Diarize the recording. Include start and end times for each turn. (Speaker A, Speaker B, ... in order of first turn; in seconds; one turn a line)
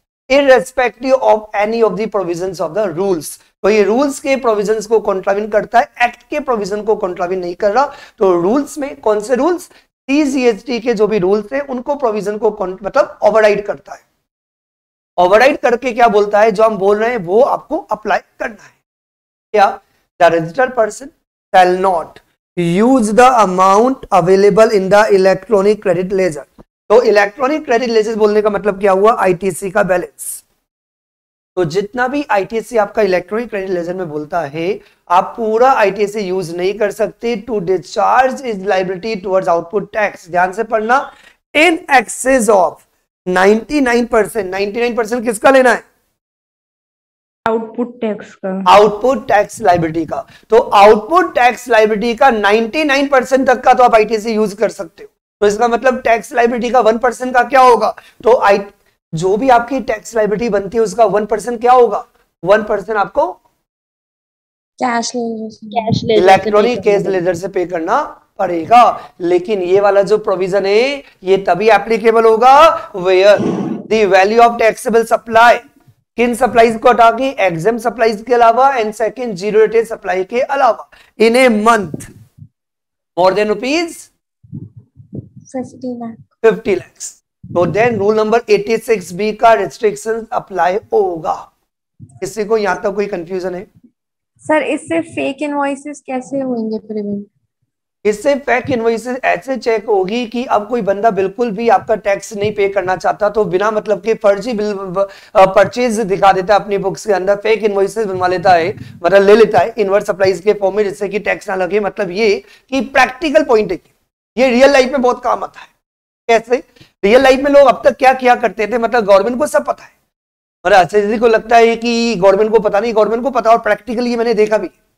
Speaker A: 0.3-14.0
Speaker A: 15.2-18.7
Speaker A: 19.5-30.4
Speaker A: 31.6-45.8
Speaker B: 47.5-48.7
Speaker A: 48.6-63.4
Speaker C: 64.8-65.8
Speaker B: 65.7-67.2
Speaker A: 66.2-75.6
Speaker A: 76.2-82.1
Speaker A: 83.2-84.1
Speaker C: 85.5-86.2
Speaker A: 86.4-91.5
Speaker A: 92.2-93.7
Speaker C: 94.4-96.8
Speaker A: 98.0-115.7
Speaker A: 116.3-119.9
Speaker A: 120.6-124.7